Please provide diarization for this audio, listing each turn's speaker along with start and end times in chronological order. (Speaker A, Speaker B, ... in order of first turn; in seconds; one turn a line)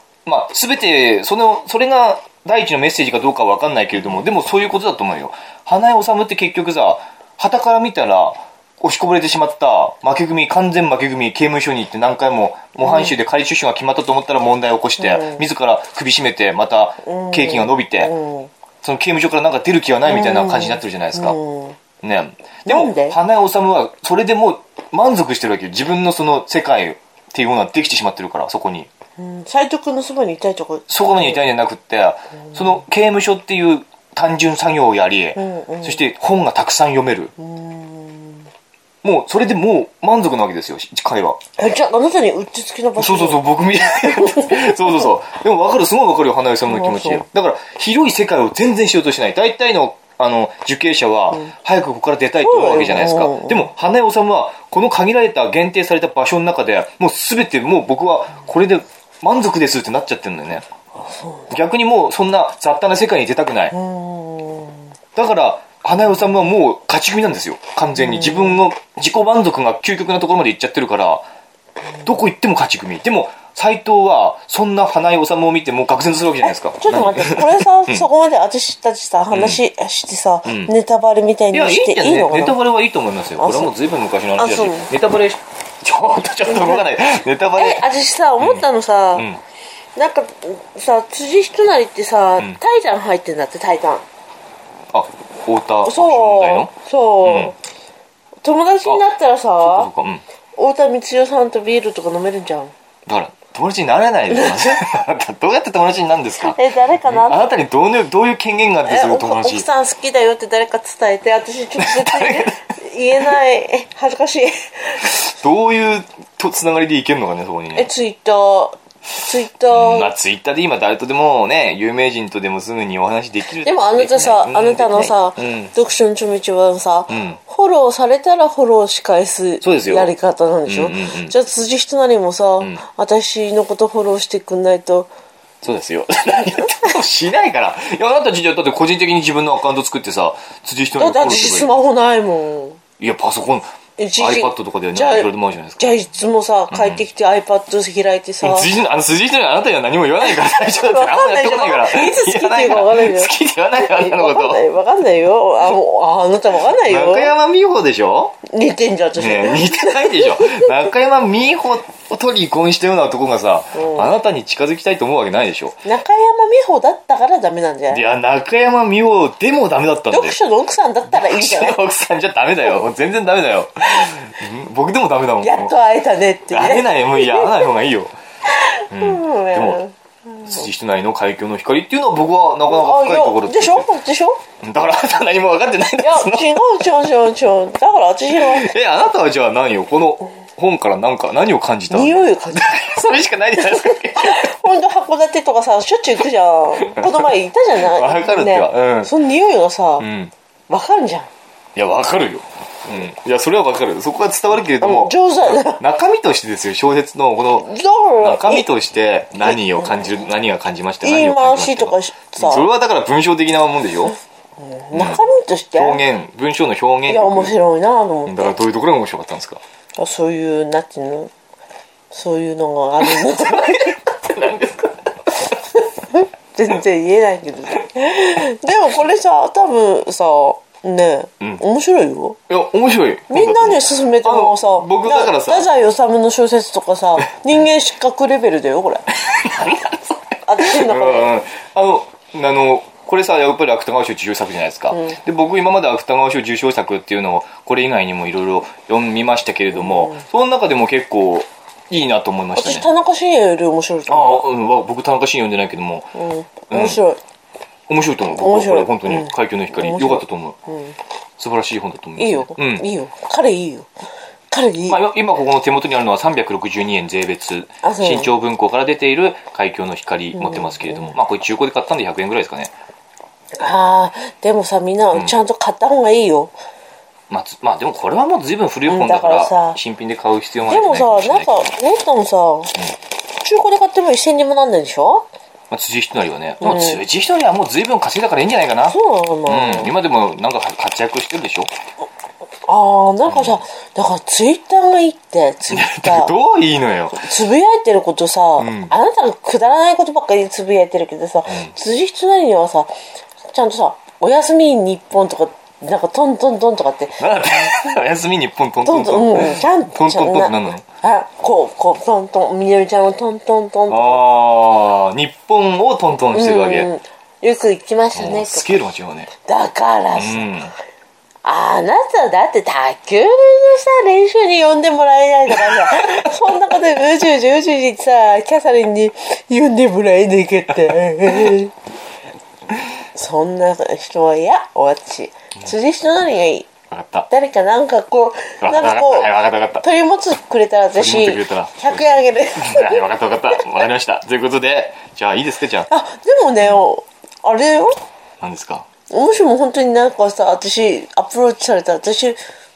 Speaker A: 0.2-18.1
Speaker B: 12.8-13.2
Speaker B: 15.0-15.4
Speaker B: 17.0-18.5
Speaker A: 18.8-21.4
Speaker B: 20.0-21.8
Speaker A: 22.0-28.9
Speaker B: 22.7-23.1
Speaker B: 29.2-31.4
Speaker A: 30.9-37.3
Speaker B: 35.4-36.0
Speaker B: 37.4-38.5
Speaker A: 39.0-41.4
Speaker B: 41.6-43.4
Speaker A: 43.0-60.6
Speaker B: 44.0-45.1
Speaker B: 46.7-47.2
Speaker B: 52.4-53.7
Speaker B: 61.1-61.5
Speaker A: 61.5-63.7
Speaker B: 63.7-64.9
Speaker A: 65.2-71.2
Speaker B: 68.0-68.6
Speaker A: 72.0-78.1
Speaker B: 76.8-82.6
Speaker A: 79.3-79.6
Speaker A: 80.5-80.7
Speaker A: 81.5-87.8
Speaker B: 83.4-83.7
Speaker B: 84.3-84.9
Speaker B: 86.5-86.8
Speaker B: 87.5-89.3
Speaker A: 88.4-89.4
Speaker B: 90.0-94.0
Speaker A: 94.9-96.7
Speaker B: 95.8-97.5
Speaker A: 97.2-97.5
Speaker B: 98.4-99.9
Speaker A: 99.6-100.2
Speaker B: 100.5-102.7
Speaker A: 103.0-109.7
Speaker B: 106.4-107.5
Speaker B: 108.8-115.2
Speaker A: 111.8-112.6
Speaker A: 115.0-117.9
Speaker B: 117.8-120.1
Speaker A: 119.7-125.7
Speaker B: 123.6-135.1
Speaker A: 127.1-127.4
Speaker A: 129.6-130.1
Speaker A: 130.7-131.3
Speaker A: 135.6-141.8
Speaker B: 140.9-142.8
Speaker A: 143.0-145.9
Speaker B: 144.0-148.7
Speaker A: 146.7-147.1
Speaker A: 148.4-154.6
Speaker B: 150.2-157.3
Speaker A: 156.7-158.4
Speaker B: 158.4-160.7
Speaker A: 159.1-165.8
Speaker B: 163.7-164.1
Speaker B: 165.8-168.0
Speaker A: 167.9-170.4
Speaker B: 170.1-171.8
Speaker A: 171.1-175.7
Speaker B: 175.4-177.6
Speaker A: 176.5-178.1
Speaker B: 178.5-180.6
Speaker A: 178.9-179.8
Speaker A: 180.4-183.9
Speaker B: 182.7-184.4
Speaker A: 184.6-186.5
Speaker B: 186.0-188.7
Speaker A: 188.3-194.5
Speaker B: 191.9-192.8
Speaker B: 193.7-200.1
Speaker A: 196.8-199.1
Speaker A: 200.0-200.3
Speaker B: 200.7-201.3
Speaker A: 201.8-214.2
Speaker B: 204.8-205.8
Speaker B: 207.6-208.7
Speaker B: 211.0-212.7
Speaker B: 214.6-216.0
Speaker A: 214.9-215.2
Speaker A: 215.7-217.5
Speaker B: 217.1-218.5
Speaker A: 218.2-219.6
Speaker B: 220.0-221.3
Speaker B: 222.1-224.0
Speaker A: 223.0-225.3
Speaker B: 226.1-232.4
Speaker A: 232.5-235.7
Speaker B: 233.3-239.1
Speaker A: 239.2-252.9
Speaker B: 240.4-241.3
Speaker B: 249.7-250.2
Speaker B: 252.6-254.5
Speaker A: 254.1-256.1
Speaker B: 256.1-257.2
Speaker A: 256.7-257.0
Speaker A: 257.9-260.6
Speaker B: 258.4-260.9
Speaker A: 261.4-262.8
Speaker B: 262.2-263.9
Speaker B: 264.5-265.0
Speaker A: 264.9-272.7
Speaker B: 267.8-268.3
Speaker B: 270.4-271.1
Speaker B: 273.6-276.5
Speaker A: 277.3-281.6
Speaker B: 278.9-279.8
Speaker B: 280.7-282.7
Speaker B: 283.4-285.2
Speaker A: 285.7-291.7
Speaker B: 286.6-287.0
Speaker B: 288.9-289.9
Speaker B: 292.6-296.3
Speaker A: 293.2-293.6
Speaker A: 295.7-297.2
Speaker B: 297.1-302.9
Speaker A: 298.6-298.9
Speaker A: 301.5-301.7
Speaker B: 303.4-307.9
Speaker A: 307.2-310.8
Speaker B: 308.8-314.2
Speaker A: 313.9-316.9
Speaker B: 316.3-318.7
Speaker A: 318.1-319.3
Speaker B: 319.4-320.5
Speaker A: 320.1-320.7
Speaker B: 321.4-331.7
Speaker A: 325.5-326.3
Speaker B: 333.1-336.7
Speaker A: 336.9-337.3
Speaker B: 337.3-339.3
Speaker A: 338.6-339.8
Speaker B: 339.8-343.0
Speaker A: 340.9-345.9
Speaker B: 345.9-348.0
Speaker A: 346.6-346.8
Speaker A: 348.4-348.9
Speaker B: 349.1-352.4